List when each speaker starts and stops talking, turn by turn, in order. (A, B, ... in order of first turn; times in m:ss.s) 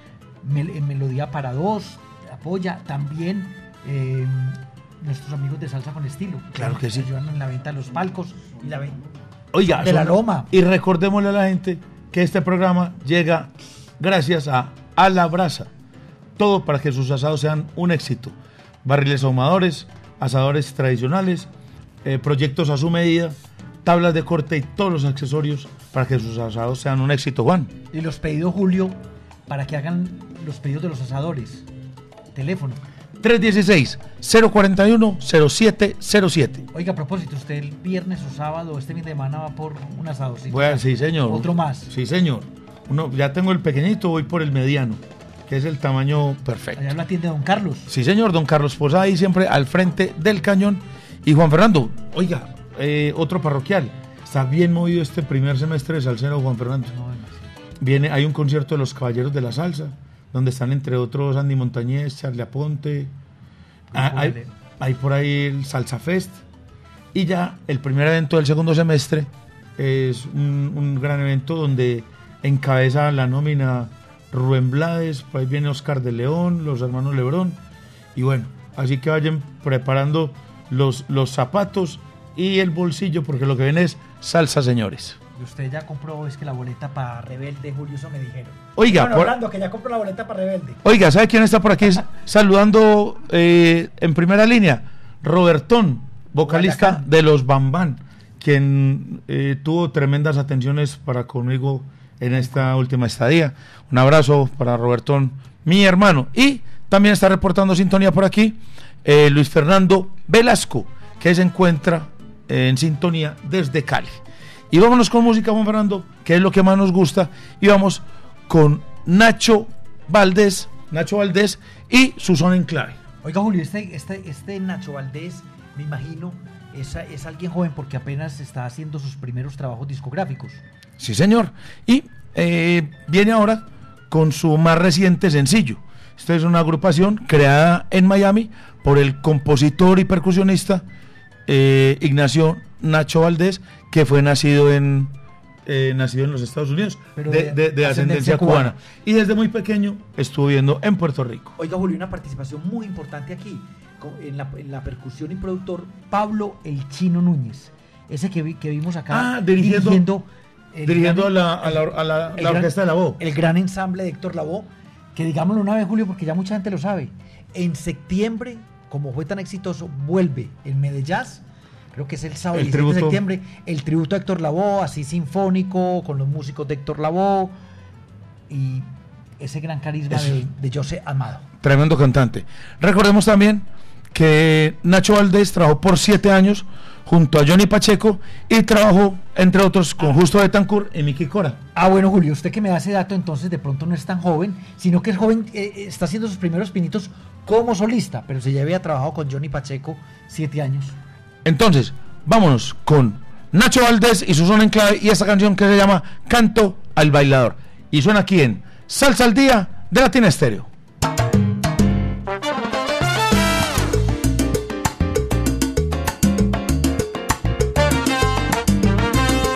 0:00.4-0:09.0 A
0:06.6-0:07.1 B
0:09.5-0:15.7 B
0:09.8-0:10.5 A
0:16.4-0:21.5 B
0:22.0-0:27.7 B
0:27.9-0:31.6 A
0:32.3-0:32.8 A
0:33.2-0:36.6 B
0:36.7-0:41.9 A
0:40.5-0:46.9 B
0:46.8-0:47.9 A
0:47.9-0:57.0 B
0:56.9-0:57.5 A
0:57.8-1:03.1 B
1:03.9-1:04.5 A
1:03.9-1:06.4 B
1:07.1-1:17.6 B
1:18.2-1:25.2 B
1:25.4-1:30.8 A
1:28.8-1:29.4 B
1:30.8-1:54.2 B
1:36.4-1:37.0 A
1:54.7-2:03.0 B
2:03.2-2:10.6 A
2:11.0-2:20.8 B
2:21.5-2:25.1 B
2:25.7-2:31.6 B
2:27.2-2:28.8 A
2:31.6-2:51.4 A
2:39.1-2:40.1 B
2:40.8-2:43.2 B
2:51.9-2:57.5 A
2:52.5-2:53.2 B
2:58.5-2:58.9 A
2:59.4-3:01.4 A
3:00.1-3:00.4 B
3:01.6-3:11.6 B
3:11.8-3:21.0 A
3:21.4-3:30.7 B